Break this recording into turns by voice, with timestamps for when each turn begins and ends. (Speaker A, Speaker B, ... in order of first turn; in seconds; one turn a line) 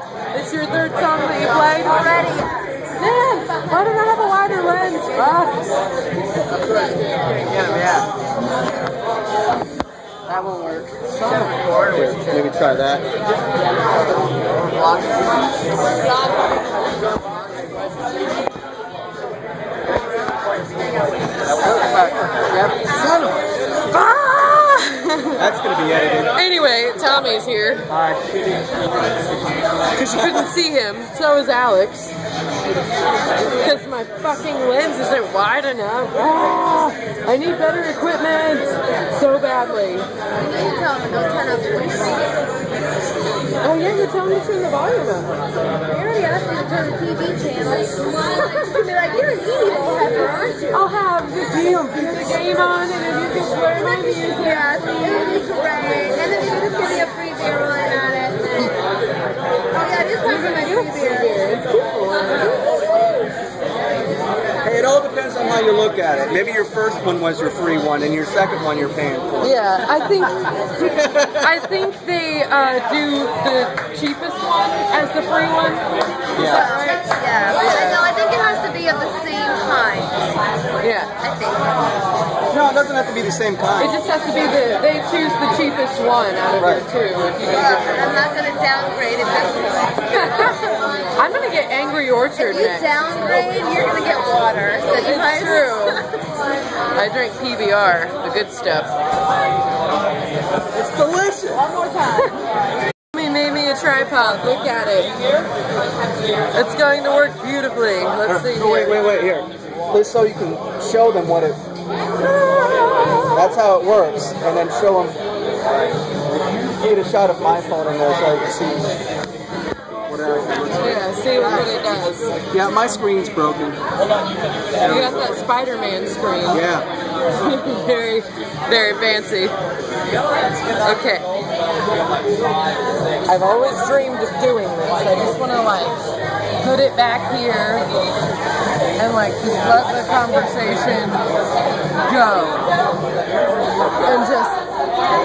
Speaker A: 0.3-2.3
Speaker B: 1.8-2.8
Speaker A: 2.9-5.7
Speaker A: 10.3-11.5
Speaker C: 11.7-13.1
Speaker C: 21.5-23.4
Speaker A: 23.9-25.4
Speaker C: 25.4-26.3
Speaker A: 26.4-27.9
Speaker C: 27.9-28.4
Speaker A: 30.0-32.1
Speaker A: 33.5-40.1
Speaker B: 40.4-42.5
Speaker A: 43.6-45.3
Speaker B: 45.9-50.7
Speaker A: 48.4-48.7
Speaker A: 50.7-54.8
Speaker B: 54.3-58.8
Speaker B: 59.7-61.6
Speaker A: 60.2-62.8
Speaker C: 64.6-69.5
Speaker A: 69.4-78.0
Speaker C: 70.9-71.4
Speaker C: 76.3-76.7
Speaker B: 76.4-80.4
Speaker A: 80.8-81.2
Speaker B: 81.2-81.9
Speaker C: 82.5-84.0
Speaker A: 83.8-88.2
Speaker C: 86.6-86.8
Speaker B: 87.5-90.3
Speaker A: 90.1-93.0
Speaker B: 92.4-96.0
Speaker A: 94.9-96.1
Speaker A: 96.9-98.9
Speaker C: 100.7-101.7
Speaker A: 101.9-102.3
Speaker A: 103.1-105.2
Speaker A: 106.5-109.0
Speaker C: 108.3-111.6
Speaker A: 112.4-113.3
Speaker C: 113.3-115.2
Speaker C: 116.7-118.9
Speaker C: 120.1-121.6
Speaker A: 120.8-122.3
Speaker C: 122.5-123.8
Speaker C: 124.8-125.3
Speaker A: 124.8-126.7
Speaker C: 126.5-126.8
Speaker A: 127.3-129.6
Speaker A: 130.8-131.3
Speaker A: 133.2-136.0
Speaker A: 136.6-137.9
Speaker A: 139.0-141.3
Speaker A: 142.0-142.7
Speaker A: 144.0-144.6